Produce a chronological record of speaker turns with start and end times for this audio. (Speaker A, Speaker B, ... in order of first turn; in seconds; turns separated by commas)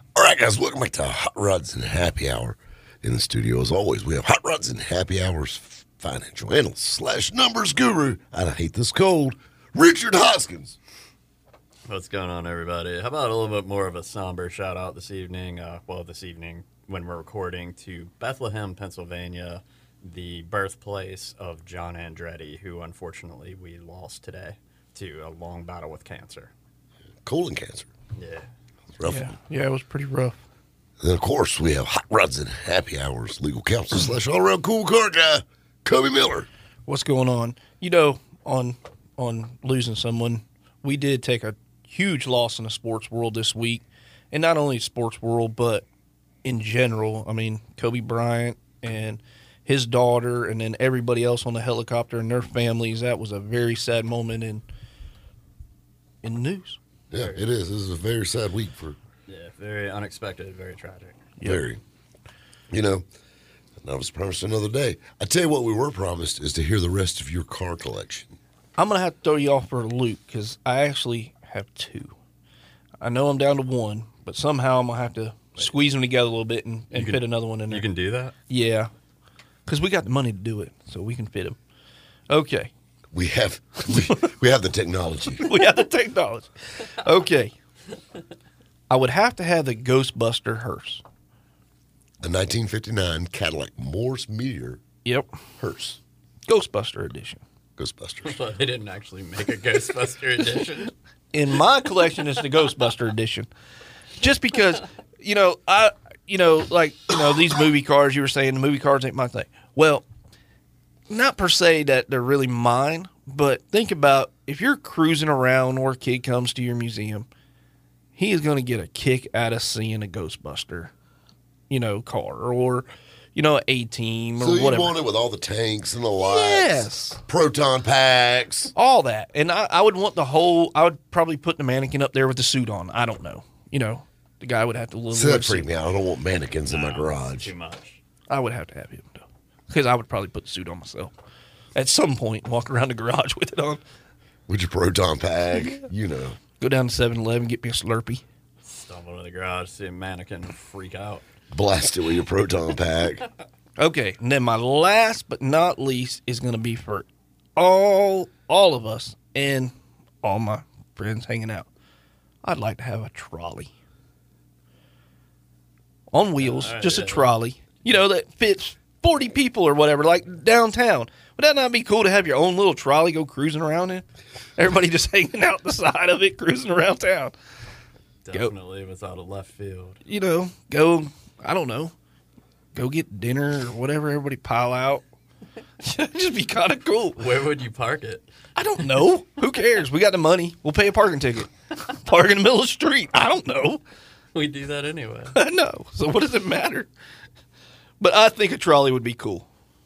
Speaker A: 0.1-10.8, Speaker B: 11.9-26.5, Speaker A: 27.2-27.9, Speaker B: 28.2-28.5, Speaker A: 29.0-29.3, Speaker C: 29.1-30.4, Speaker A: 31.0-36.5, Speaker C: 36.9-45.8, Speaker C: 46.4-54.6, Speaker C: 56.2-56.8, Speaker A: 57.1-59.0, Speaker B: 57.1-57.4, Speaker B: 59.3-61.3, Speaker A: 61.4-61.8, Speaker A: 62.7-63.1, Speaker A: 63.8-68.4, Speaker C: 68.8-72.1, Speaker C: 73.0-77.9, Speaker B: 76.9-78.3, Speaker C: 78.5-78.9, Speaker C: 79.7-81.6, Speaker C: 82.3-82.7, Speaker A: 83.1-85.6, Speaker C: 85.4-87.5, Speaker C: 88.9-91.0, Speaker A: 92.2-94.8, Speaker A: 95.6-96.0, Speaker C: 96.5-97.4, Speaker A: 97.8-98.4, Speaker B: 98.2-100.9, Speaker C: 101.3-103.5, Speaker C: 104.2-110.0, Speaker C: 111.1-117.3, Speaker C: 118.2-120.9, Speaker C: 121.7-124.9, Speaker A: 124.4-128.7, Speaker C: 126.2-127.2, Speaker C: 128.8-135.7, Speaker A: 135.1-137.5, Speaker B: 136.7-138.0, Speaker C: 138.3-141.1, Speaker C: 141.8-143.8, Speaker A: 144.5-146.4, Speaker C: 146.6-148.2, Speaker B: 148.6-151.2, Speaker A: 151.5-153.2, Speaker C: 153.8-161.7, Speaker C: 162.4-163.7, Speaker C: 166.1-174.1, Speaker B: 166.4-167.8, Speaker C: 174.6-177.3, Speaker B: 178.2-180.0, Speaker C: 180.1-181.9, Speaker C: 182.8-185.0, Speaker C: 185.8-187.2, Speaker B: 187.2-188.3, Speaker C: 188.6-193.8, Speaker B: 194.3-195.4, Speaker C: 195.3-196.9, Speaker C: 198.0-199.4